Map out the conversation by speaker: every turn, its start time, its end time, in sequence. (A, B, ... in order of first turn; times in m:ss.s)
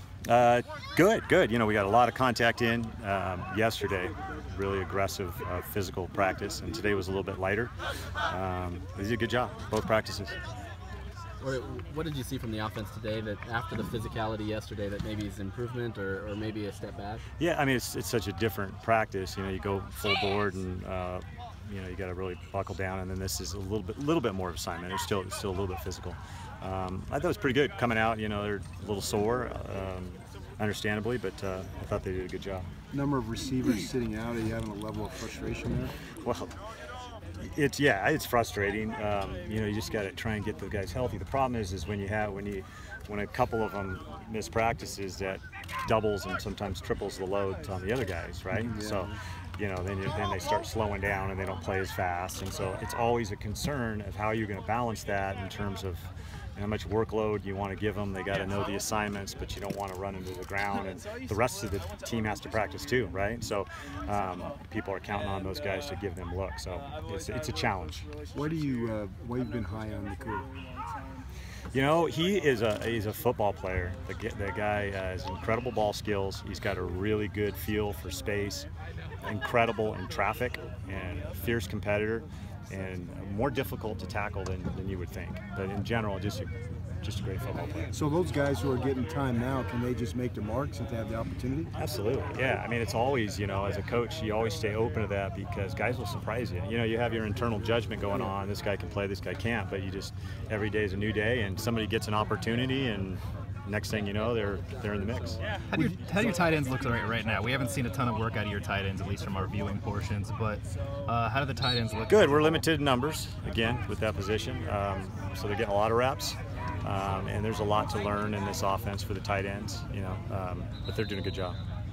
0:00.2-0:07.7 A
0:08.3-0:10.4 A
0:11.4-0:17.2 B
0:17.4-0:32.7 A
0:32.9-0:36.0 C
0:36.2-0:36.5 A
0:37.4-1:08.0 A
0:48.6-0:49.2 C
1:08.3-1:10.5 C
1:11.7-1:18.7 A
1:19.2-1:26.5 A
1:27.0-1:27.9 A
1:27.9-1:31.7 C
1:31.8-1:45.4 A
1:45.7-1:52.6 D
1:52.1-2:01.6 A